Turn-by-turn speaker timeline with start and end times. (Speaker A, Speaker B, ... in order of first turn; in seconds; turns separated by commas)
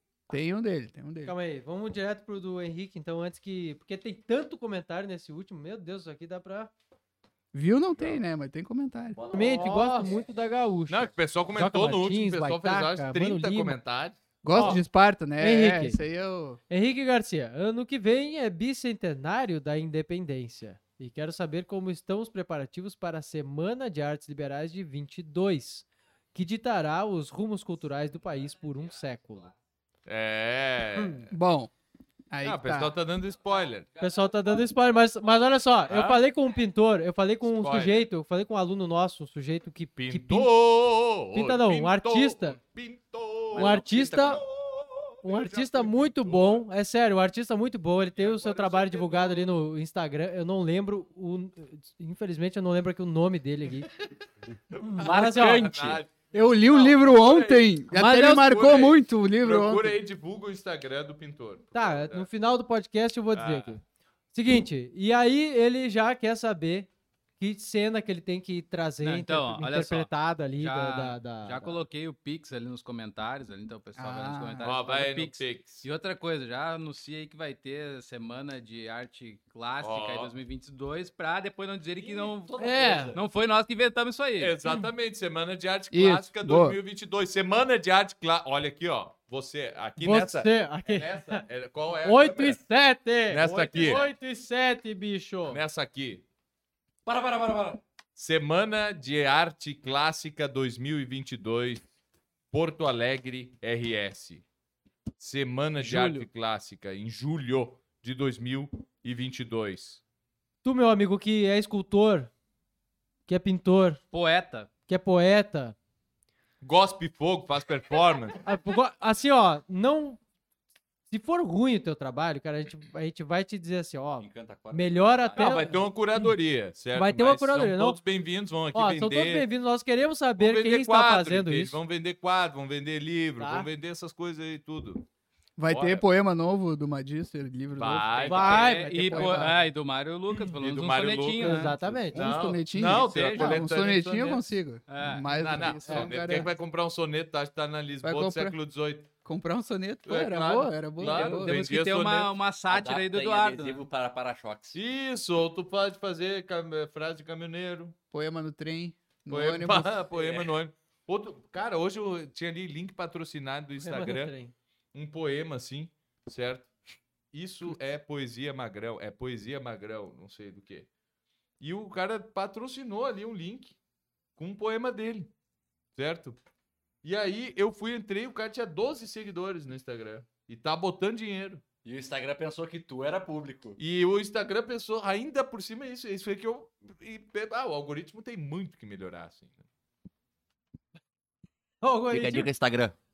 Speaker A: 0.3-1.4, Speaker B: 1.2-6.7, Speaker A: 7.5-9.2, Speaker C: 9.1-10.2, Speaker B: 9.3-13.8, Speaker D: 10.9-14.7, Speaker A: 14.4-16.6, Speaker B: 14.5-14.8, Speaker B: 15.4-16.0, Speaker B: 16.7-29.5, Speaker D: 30.1-31.3, Speaker B: 31.0-31.3, Speaker A: 31.3-31.7, Speaker A: 32.3-33.0, Speaker D: 32.4-33.9, Speaker B: 34.0-40.5, Speaker D: 35.9-36.2, Speaker D: 37.4-38.1, Speaker D: 40.0-46.6, Speaker B: 41.3-42.6, Speaker C: 43.5-44.4, Speaker B: 43.5-44.4, Speaker B: 45.2-53.9, Speaker D: 48.1-49.5, Speaker D: 54.7-62.3, Speaker B: 54.8-55.8, Speaker C: 55.0-56.0, Speaker A: 56.3-60.0, Speaker E: 57.9-58.4, Speaker B: 61.7-63.8, Speaker D: 63.3-63.7, Speaker B: 64.3-66.9, Speaker B: 67.4-71.8, Speaker E: 69.0-84.6, Speaker A: 73.9-74.7, Speaker D: 74.6-75.8, Speaker D: 79.8-80.3, Speaker C: 82.0-83.2, Speaker B: 82.6-83.2, Speaker D: 84.4-92.6, Speaker A: 85.9-86.8, Speaker B: 90.0-91.4, Speaker B: 92.0-95.6, Speaker D: 93.3-94.1, Speaker D: 95.5-96.2, Speaker C: 97.1-97.8, Speaker D: 98.2-101.9, Speaker D: 102.5-104.4, Speaker D: 105.2-110.0, Speaker E: 105.8-106.3, Speaker B: 110.6-112.3, Speaker B: 113.3-114.0, Speaker E: 114.1-114.7, Speaker B: 114.9-115.8, Speaker D: 116.6-118.4, Speaker B: 118.4-120.2, Speaker B: 121.1-126.3, Speaker C: 124.2-125.8, Speaker D: 125.4-129.4, Speaker B: 126.9-128.0, Speaker B: 128.7-131.8, Speaker D: 130.4-135.1, Speaker B: 133.4-133.7, Speaker A: 135.6-139.6, Speaker D: 135.7-136.1, Speaker D: 137.8-139.2, Speaker B: 138.2-139.6, Speaker E: 138.4-142.0, Speaker D: 140.5-144.5, Speaker B: 141.4-142.2, Speaker A: 142.1-146.5, Speaker E: 142.8-143.7, Speaker E: 144.9-145.2, Speaker D: 145.2-149.1, Speaker B: 145.8-146.4, Speaker A: 148.0-148.6, Speaker A: 149.2-151.7, Speaker D: 150.1-152.3, Speaker E: 151.0-153.9, Speaker C: 152.7-154.8, Speaker D: 154.7-157.9, Speaker A: 158.1-160.0, Speaker D: 159.3-164.3, Speaker C: 160.1-160.5, Speaker B: 163.8-164.5, Speaker D: 164.9-166.7, Speaker D: 167.3-170.9, Speaker D: 171.6-173.8, Speaker D: 174.4-175.3, Speaker D: 175.9-176.4, Speaker D: 177.0-181.6, Speaker C: 181.8-183.8, Speaker D: 183.8-189.6, Speaker B: 191.8-192.5, Speaker C: 192.1-192.9